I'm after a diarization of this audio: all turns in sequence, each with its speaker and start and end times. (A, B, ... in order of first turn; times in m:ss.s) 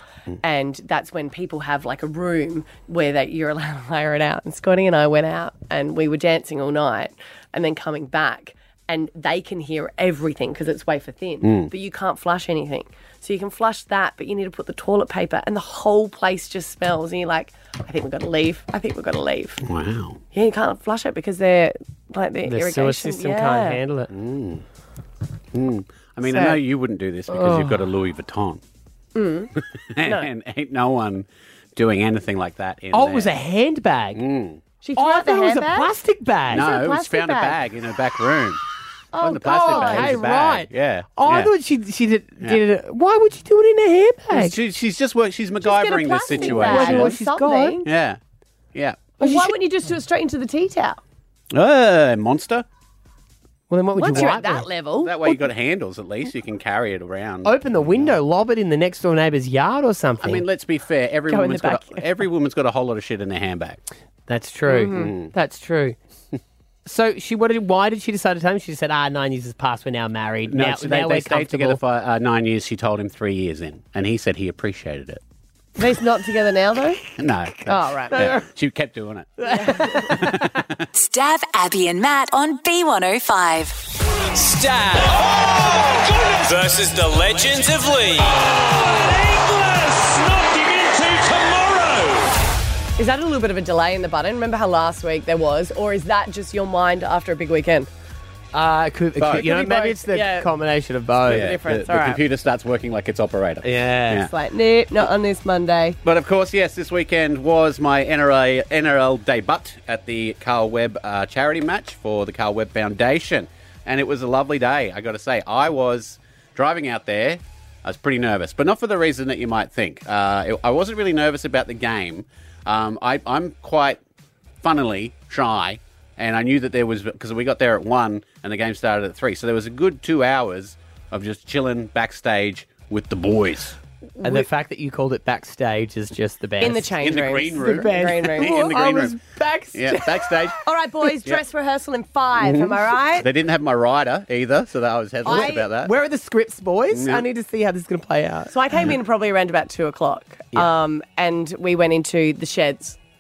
0:00.4-0:19.6 A
0:11.4-0:11.7 B
0:19.6-0:20.2 B
0:20.3-0:23.8 A
0:22.5-0:24.1 C
0:24.1-0:24.6 B
0:25.5-0:28.6 B
0:26.2-0:26.6 A
0:27.3-0:27.8 C
0:29.2-0:29.5 A
0:29.8-0:33.3 B
0:32.9-0:34.2 C
0:34.1-0:34.6 B
0:34.8-0:35.9 A
0:35.0-0:36.7 C
0:36.5-0:38.6 B
0:36.5-0:37.6 A
0:39.1-0:40.2 A
0:39.2-0:41.5 B
0:39.4-0:44.6 C
0:44.3-0:47.2 B
0:45.6-0:47.9 A
0:46.4-0:47.8 C
0:47.8-0:48.2 B
0:48.7-0:49.1 B
0:49.2-0:51.0 A
0:49.2-0:49.6 C
0:51.5-0:52.7 B
0:53.7-0:54.7 C
0:54.0-0:55.5 A
0:54.1-0:54.4 B
0:55.0-0:58.2 B
0:57.4-1:00.4 C
1:00.2-1:03.8 B
1:01.3-1:02.0 A
1:04.3-1:06.0 C
1:04.7-1:05.2 A
1:04.9-1:05.3 B
1:06.9-1:11.8 C
1:10.5-1:15.2 B
1:15.8-1:17.0 A
1:17.2-1:20.9 B
1:17.7-1:18.2 A
1:18.1-1:18.4 C
1:19.4-1:20.4 C
1:19.5-1:19.9 A
1:20.9-1:23.7 D
1:24.2-1:32.3 E
1:33.0-1:37.9 A
1:38.5-1:41.6 C
1:39.2-1:39.5 B
1:39.3-1:40.5 A
1:41.2-1:42.2 A
1:41.2-1:44.3 B
1:43.6-1:44.3 C
1:44.3-1:46.0 A
1:46.0-2:04.0 B
2:04.6-2:13.8 B
2:14.2-2:17.0 C
2:14.2-2:14.5 A
2:16.6-2:18.8 A
2:17.0-2:19.2 B
2:17.6-2:20.3 C
2:19.7-2:20.6 B
2:20.6-2:23.3 A
2:22.4-2:25.9 B
2:25.2-2:25.7 A
2:25.3-2:28.5 C
2:26.9-2:27.3 B
2:28.5-2:33.0 A